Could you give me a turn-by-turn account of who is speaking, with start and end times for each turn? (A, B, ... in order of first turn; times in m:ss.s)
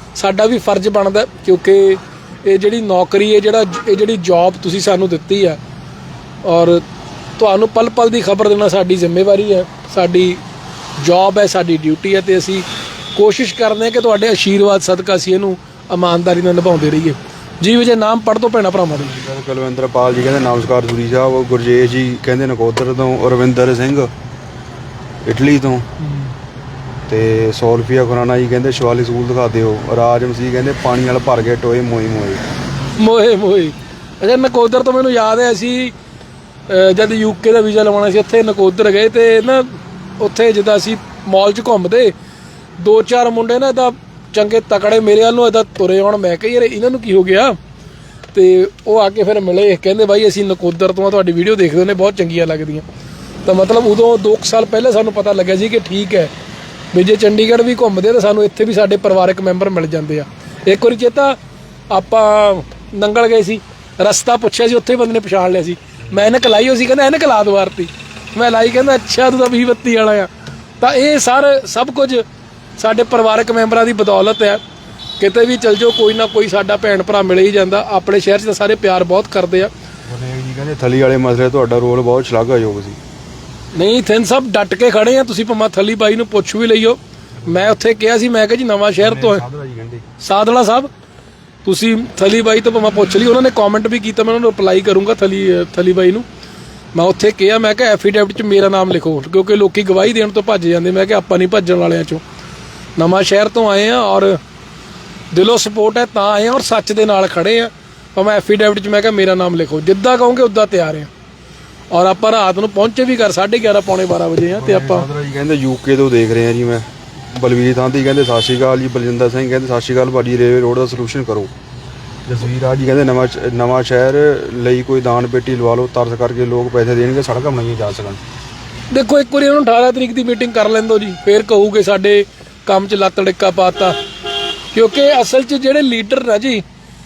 0:00.2-0:05.6 A
0:06.4-0:06.8 A
0:07.4-0:10.4 A
0:11.0-0:19.2 A
0:19.0-0:24.1 B
0:25.2-0:25.9 B
0:26.0-0:26.3 A
0:27.1-0:32.4 B
0:33.0-0:35.9 A
0:36.7-0:42.1 A
0:42.8-0:47.6 A
0:48.3-0:52.9 A
0:53.4-0:56.3 A
0:56.9-1:01.4 A
1:01.9-1:10.3 A
1:06.0-1:06.3 B
1:10.8-1:12.2 A
1:12.8-1:14.6 A
1:15.2-1:19.7 A
1:20.0-1:23.0 B
1:23.8-1:29.4 A
1:27.4-1:27.8 B
1:29.0-1:30.1 B
1:30.2-1:30.9 A
1:31.6-1:36.2 A
1:37.0-1:42.2 A
1:43.0-1:44.4 A
1:45.3-1:51.1 A
1:51.9-1:55.1 A
1:54.5-2:01.5 B
2:02.3-2:08.2 B
2:08.9-2:14.0 A
2:14.7-2:16.6 A